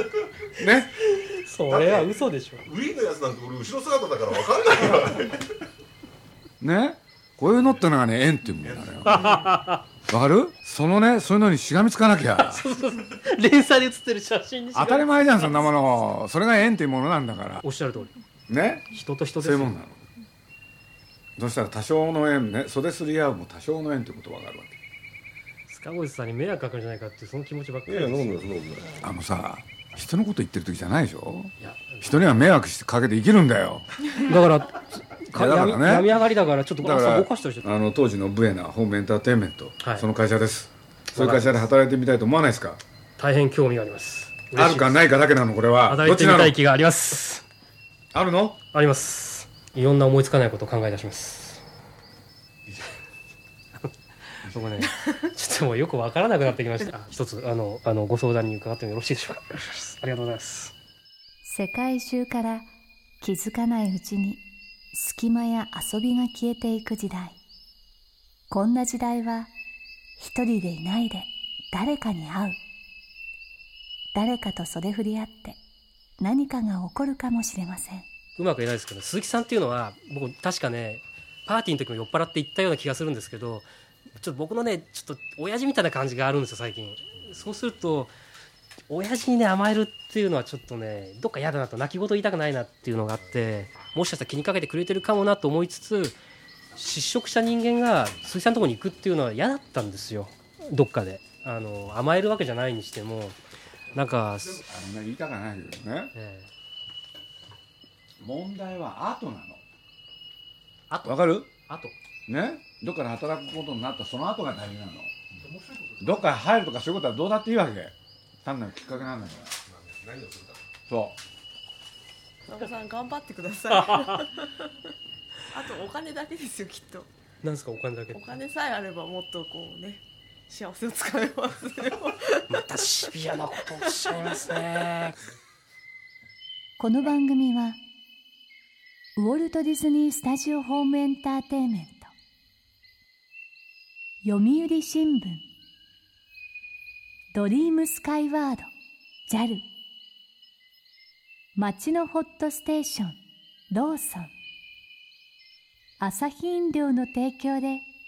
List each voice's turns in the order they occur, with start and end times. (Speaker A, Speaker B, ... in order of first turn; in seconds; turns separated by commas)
Speaker A: 0.6-0.9, Speaker B: 1.1-2.6, Speaker C: 1.7-5.5, Speaker A: 6.6-9.4, Speaker C: 8.7-9.3, Speaker B: 9.1-9.8, Speaker A: 10.1-12.6, Speaker B: 12.3-16.0, Speaker A: 14.7-17.6, Speaker B: 17.6-18.1, Speaker A: 18.5-20.1, Speaker B: 18.9-19.7, Speaker A: 21.4-24.8, Speaker B: 25.7-28.4, Speaker C: 27.9-29.0, Speaker A: 29.0-33.9, Speaker B: 31.6-32.3, Speaker B: 34.1-37.6, Speaker A: 35.3-36.1, Speaker A: 36.8-42.8, Speaker B: 39.8-40.1, Speaker B: 41.1-41.7, Speaker B: 43.2-45.0, Speaker A: 44.5-46.6, Speaker B: 45.9-47.4, Speaker A: 48.1-48.6, Speaker B: 48.7-51.6, Speaker B: 53.8-60.7, Speaker D: 61.4-62.7, Speaker D: 63.2-64.4, Speaker D: 64.9-67.4, Speaker D: 68.5-69.5, Speaker D: 70.2-72.6, Speaker D: 74.1-75.6, Speaker D: 76.2-78.1, Speaker B: 78.4-83.7, Speaker B: 84.2-88.1, Speaker B: 88.9-96.2, Speaker B: 96.7-103.4, Speaker B: 103.9-104.6, Speaker A: 104.6-106.1, Speaker B: 106.1-106.5, Speaker A: 108.2-109.6, Speaker B: 110.9-112.0, Speaker A: 111.0-111.5, Speaker A: 112.3-115.1, Speaker C: 115.5-116.0, Speaker A: 116.0-117.9, Speaker A: 118.4-119.5, Speaker C: 119.7-120.6, Speaker A: 120.9-121.2, Speaker E: 122.5-124.7, Speaker B: 123.7-124.3, Speaker E: 125.5-127.1, Speaker B: 127.4-128.3, Speaker E: 128.1-132.6, Speaker B: 132.5-135.2, Speaker D: 136.8-137.8, Speaker D: 139.2-142.1, Speaker D: 144.2-145.4, Speaker D: 147.3-148.7, Speaker D: 149.3-149.6, Speaker D: 151.6-154.3, Speaker D: 156.0-157.9